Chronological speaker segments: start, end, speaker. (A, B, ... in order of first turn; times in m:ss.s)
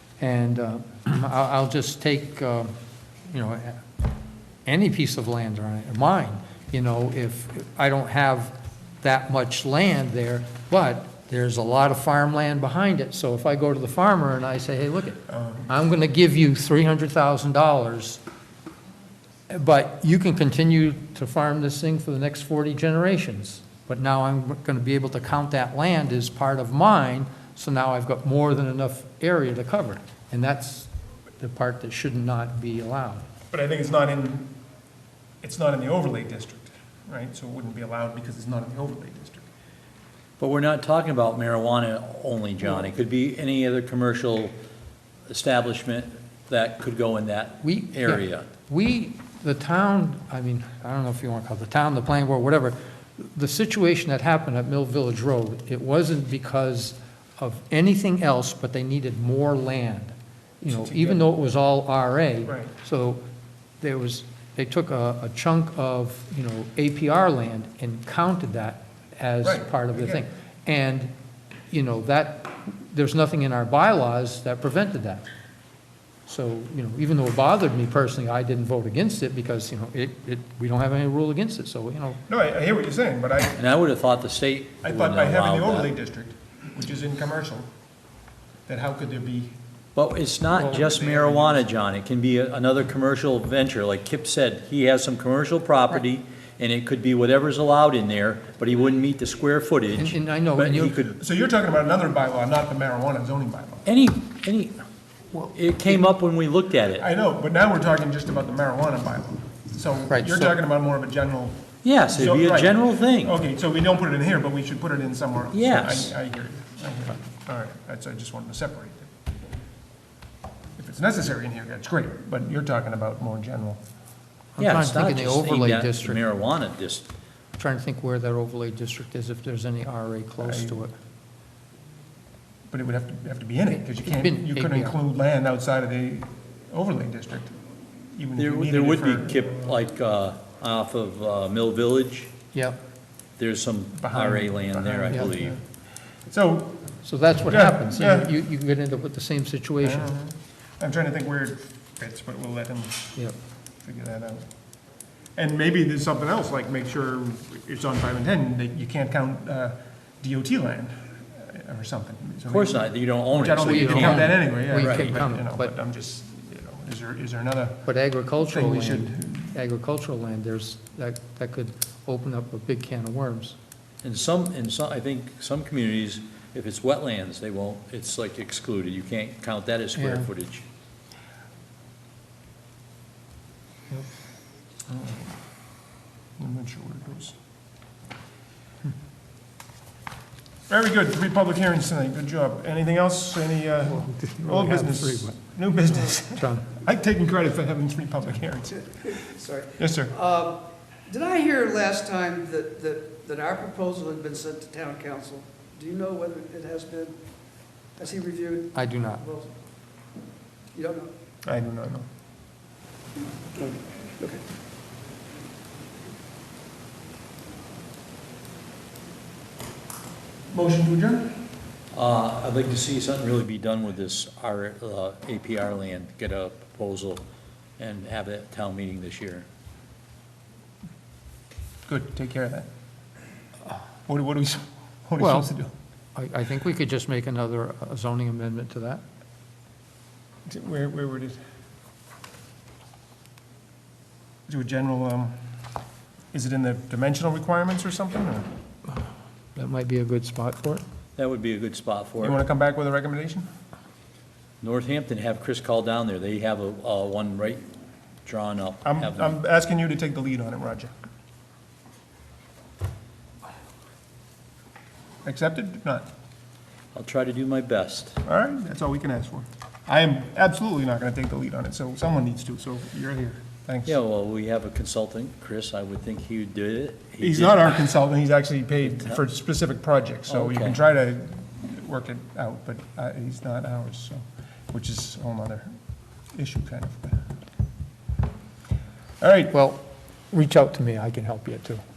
0:00.2-0:02.7 A
0:03.3-0:03.8 A
0:04.6-0:18.2 A
0:15.3-0:15.7 B
0:19.5-0:30.9 A
0:31.4-0:33.2 A
0:33.5-0:34.5 B
0:35.4-0:39.4 B
0:40.4-0:44.5 C
0:45.3-0:48.5 C
0:47.6-1:03.2 A
1:00.7-1:01.2 B
1:02.4-1:02.7 B
1:03.8-1:11.1 A
1:09.4-1:10.2 B
1:11.7-1:15.2 A
1:16.2-1:22.2 A
1:22.3-1:23.6 B
1:23.6-1:25.9 C
1:24.8-1:27.7 B
1:28.7-1:29.5 B
1:29.9-1:41.2 C
1:30.7-1:31.6 B
1:40.0-1:41.1 A
1:41.2-1:43.8 B
1:43.8-1:44.8 C
1:45.5-1:47.0 C
1:47.0-1:59.1 B
1:50.1-1:50.6 A
1:51.8-1:53.4 C
1:55.5-1:56.1 C
2:00.8-2:03.8 B
2:04.6-2:06.2 A
2:04.6-2:07.0 C
2:07.6-2:10.9 A
2:10.4-2:10.8 B
2:12.7-2:17.6 B
2:13.7-2:15.0 A
2:18.1-2:19.8 B
2:18.4-2:22.3 C
2:22.5-2:22.8 A
2:23.4-2:25.6 C
2:24.0-2:25.6 B
2:26.2-2:26.8 B
2:27.0-2:30.1 A
2:27.5-2:28.3 B
2:29.8-2:33.2 B
2:33.8-2:34.4 B
2:35.4-2:47.8 B
2:42.5-2:45.2 C
2:43.6-2:45.7 A
2:47.8-2:53.6 A
2:48.4-2:49.5 B
2:54.0-3:00.6 C
3:00.0-3:00.3 A
3:04.9-3:05.3 B
3:06.4-3:07.3 B
3:10.7-3:18.8 B
3:13.8-3:16.7 A
3:18.7-3:27.3 D
3:19.8-3:20.1 B
3:28.0-3:29.5 D
3:28.7-3:29.2 A
3:30.7-3:31.1 D
3:31.4-3:32.1 B
3:33.6-3:34.4 D
3:40.5-3:41.4 B
3:41.9-3:47.2 C
3:47.8-3:49.4 C
3:51.9-3:52.7 B
3:54.1-3:55.7 B
3:55.2-3:55.5 A
3:56.1-3:59.0 A
4:00.5-4:01.4 B
4:04.5-4:05.3 B
4:06.3-4:08.5 B
4:09.5-4:10.8 A
4:11.2-4:12.4 C
4:12.2-4:13.4 B
4:14.6-4:17.7 C
4:18.2-4:19.3 C
4:18.8-4:20.9 B
4:25.2-4:26.1 B
4:26.9-4:28.2 C
4:28.2-4:34.0 B
4:33.8-4:37.9 C
4:37.2-4:45.7 B
4:38.9-4:39.2 C
4:40.3-4:40.8 C
4:46.3-4:47.2 B
4:49.2-4:49.5 B
4:49.5-4:51.8 A